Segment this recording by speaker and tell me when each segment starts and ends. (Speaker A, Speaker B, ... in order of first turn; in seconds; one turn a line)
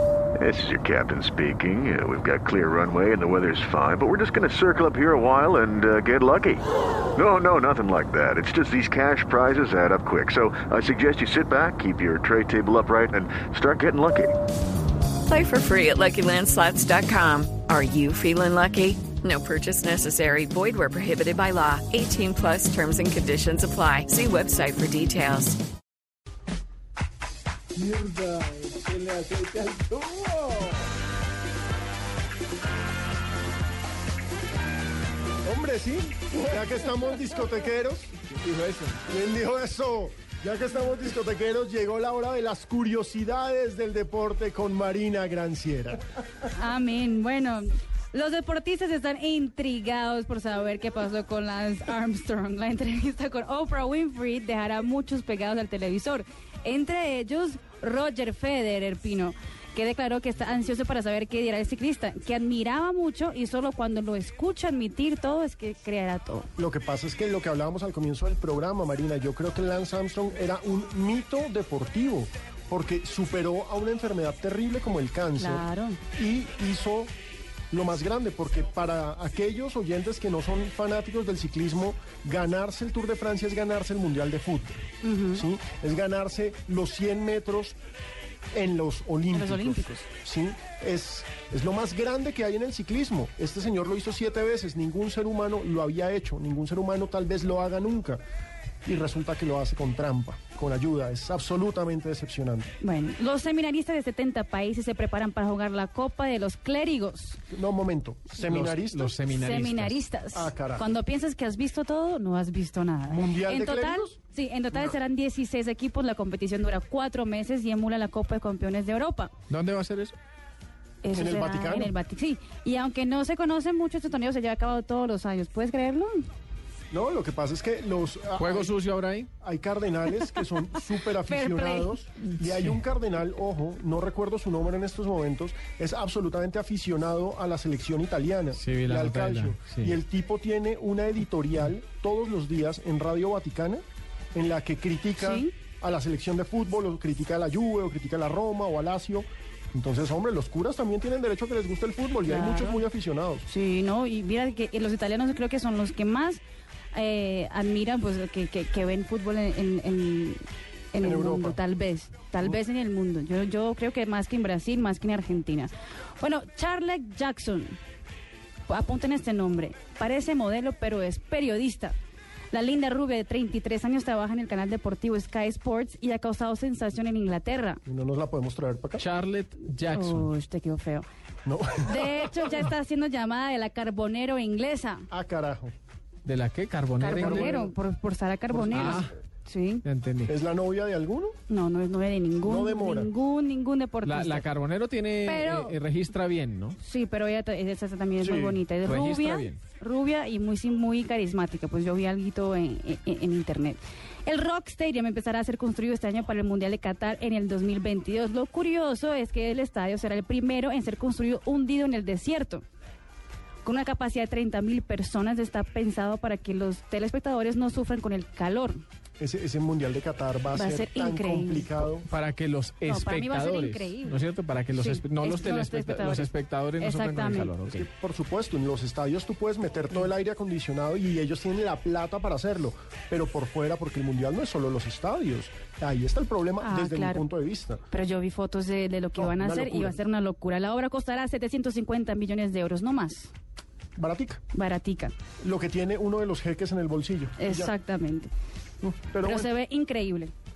Speaker A: 0.4-14.4
Speaker B: 15.2-25.6
Speaker C: 27.8-30.6
Speaker D: 35.4-38.2
Speaker C: 38.4-39.0
Speaker D: 39.1-46.0
Speaker E: 46.5-66.5
Speaker D: 66.6-77.1
Speaker E: 75.4-76.0
Speaker D: 77.7-84.8
Speaker E: 85.0-85.4
Speaker D: 85.3-87.8
Speaker D: 88.5-98.2
Speaker E: 89.3-90.0
Speaker D: 98.8-102.7
Speaker E: 102.8-107.4
Speaker D: 107.5-109.1
Speaker C: 108.4-110.0
Speaker E: 109.3-119.3
Speaker D: 110.3-110.9
Speaker D: 113.1-114.2
Speaker C: 119.5-120.2
Speaker E: 121.0-126.2
Speaker D: 121.1-122.0
Speaker D: 126.9-128.8
Speaker C: 128.4-129.3
Speaker D: 129.4-153.5
Speaker E: 131.1-132.0
Speaker C: 132.4-132.8
Speaker C: 138.6-139.9
Speaker E: 145.2-145.5
Speaker E: 152.3-152.8
Speaker E: 153.5-156.4
Speaker E: 156.9-160.4
Speaker E: 160.9-167.8
Speaker D: 161.0-161.6
Speaker E: 168.7-172.0
Speaker E: 172.5-177.8
Speaker D: 177.9-179.1
Speaker C: 179.0-180.3
Speaker E: 179.9-181.1
Speaker D: 181.5-182.7
Speaker E: 181.8-185.1
Speaker D: 185.1-185.7
Speaker C: 186.2-187.5
Speaker E: 187.0-189.8
Speaker D: 187.1-187.7
Speaker D: 188.5-189.1
Speaker C: 188.7-189.1
Speaker C: 189.8-190.3
Speaker D: 190.3-191.4
Speaker E: 191.5-194.5
Speaker D: 192.4-193.1
Speaker C: 194.0-196.8
Speaker E: 195.2-195.8
Speaker E: 196.8-212.6
Speaker D: 198.2-198.6
Speaker C: 198.8-199.6
Speaker E: 213.6-218.8
Speaker D: 219.2-222.1
Speaker E: 220.5-221.7
Speaker C: 222.1-227.9
Speaker E: 222.9-227.6
Speaker D: 227.7-237.8
Speaker E: 236.6-237.3
Speaker E: 237.9-243.3
Speaker D: 239.2-240.0
Speaker D: 244.0-244.4
Speaker E: 244.5-245.2
Speaker D: 245.4-247.7
Speaker E: 247.4-248.3
Speaker D: 248.8-249.5
Speaker E: 249.2-250.3